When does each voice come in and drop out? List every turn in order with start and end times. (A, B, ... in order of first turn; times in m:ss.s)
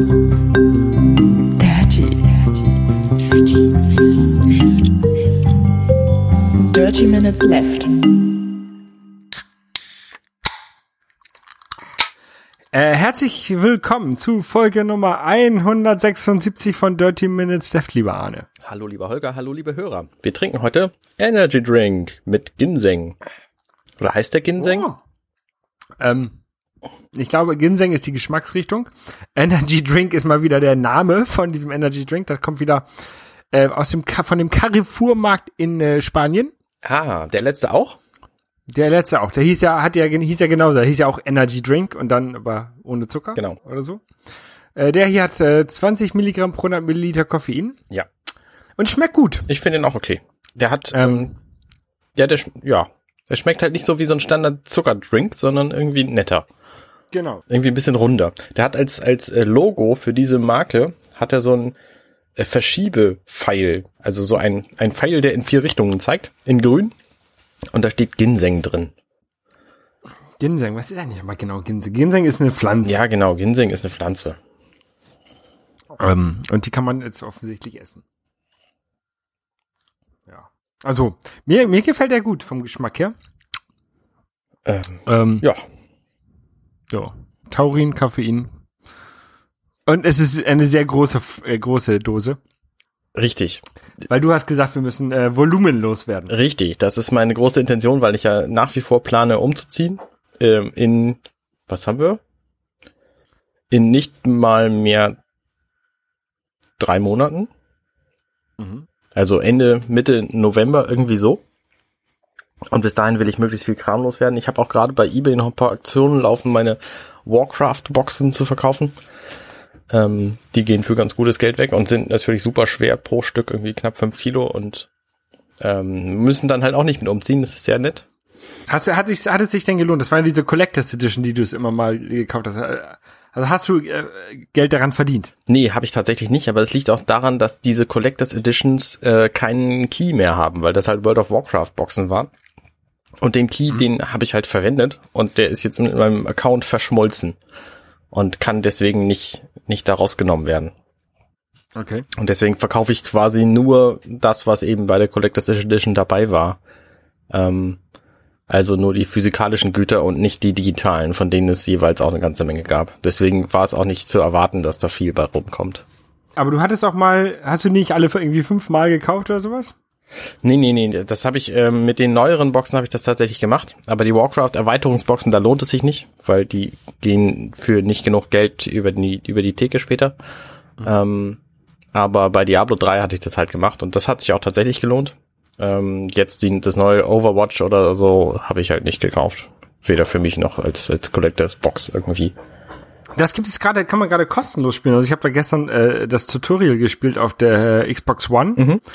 0:01.6-0:02.4 A
0:03.5-0:04.9 A
0:06.7-0:08.0 A
0:12.7-0:18.5 B
0:18.6-0:23.2 C
0:24.0-0:24.9 C
0:24.6-0:25.0 B
0:26.0-0:26.4 B
0:27.1-0:32.9 B
0:33.5-0:36.5 B
0:36.8-0:38.0 C
0:38.7-0:44.0 B
0:44.8-0:47.8 B
0:48.8-0:49.5 B
0:49.5-0:51.3 C
0:50.9-0:51.3 B
0:52.2-0:56.5 C
0:57.1-0:57.4 B
0:57.5-1:01.8 C
1:02.4-1:06.9 C
1:07.7-1:08.9 C
1:10.4-1:13.0 B
1:12.8-1:14.4 C
1:16.0-1:18.0 B
1:20.3-1:23.1 B
1:24.7-1:25.6 C
1:25.1-1:25.5 B
1:26.9-1:28.5 B
1:29.9-1:32.4 B
1:33.2-1:33.6 C
1:34.1-1:36.4 B
1:36.3-1:42.2 C
1:43.7-1:45.2 C
1:46.8-1:47.5 C
1:48.6-1:48.9 B
1:49.2-1:51.4 C
1:52.7-1:59.0 C
1:59.9-2:04.9 C
2:05.6-2:08.0 C
2:08.7-2:15.3 B
2:15.5-2:22.3 C
2:23.2-2:27.4 C
2:28.1-2:30.7 C
2:31.8-2:32.1 B
2:32.1-2:36.6 C
2:37.3-2:37.8 C
2:38.5-2:45.8 C
2:46.4-2:49.7 B
2:50.4-3:00.2 C
3:00.8-3:01.4 C
3:01.9-3:12.3 C
3:13.2-3:18.6 B